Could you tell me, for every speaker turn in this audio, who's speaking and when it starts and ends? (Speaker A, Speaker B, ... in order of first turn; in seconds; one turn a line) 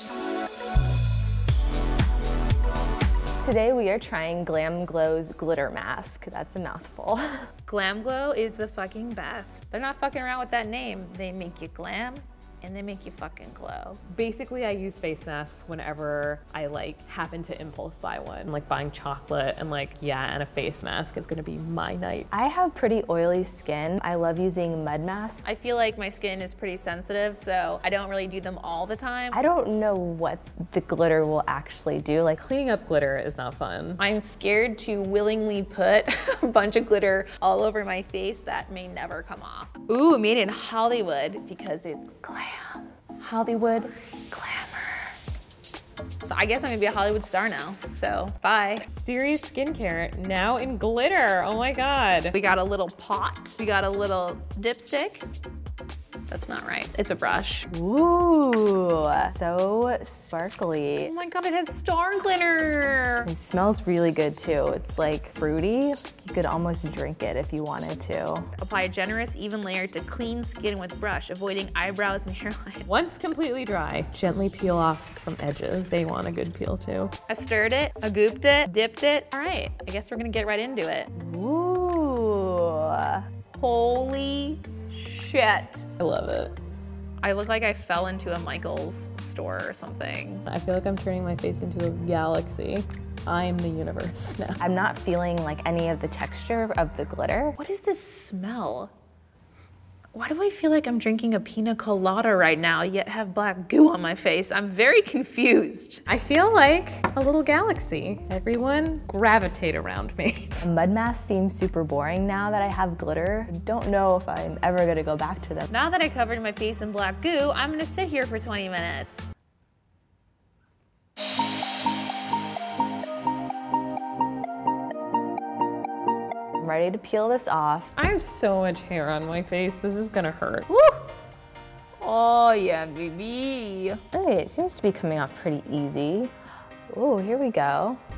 Speaker A: 3.4-7.5
Speaker B: 7.7-14.0
Speaker C: 14.1-22.3
Speaker A: 22.3-25.4
Speaker B: 25.4-29.4
Speaker A: 29.3-32.4
Speaker C: 32.4-34.0
Speaker B: 34.0-45.1
Speaker B: 46.2-48.9
Speaker C: 48.9-52.4
Speaker B: 52.3-55.2
Speaker B: 56.3-57.7
Speaker A: 57.7-61.1
Speaker B: 61.0-63.3
Speaker A: 63.3-68.5
Speaker B: 68.6-72.9
Speaker C: 72.9-77.1
Speaker B: 77.3-81.1
Speaker A: 81.2-83.2
Speaker B: 83.5-85.9
Speaker C: 86.0-86.6
Speaker B: 87.2-90.5
Speaker C: 90.5-94.6
Speaker A: 94.6-97.6
Speaker B: 97.6-98.9
Speaker B: 100.1-106.0
Speaker C: 106.1-110.6
Speaker A: 110.6-115.7
Speaker B: 115.7-119.3
Speaker A: 126.6-127.9
Speaker C: 128.0-130.7
Speaker B: 130.7-131.1
Speaker B: 132.0-134.0
Speaker A: 134.1-136.3
Speaker A: 136.9-138.0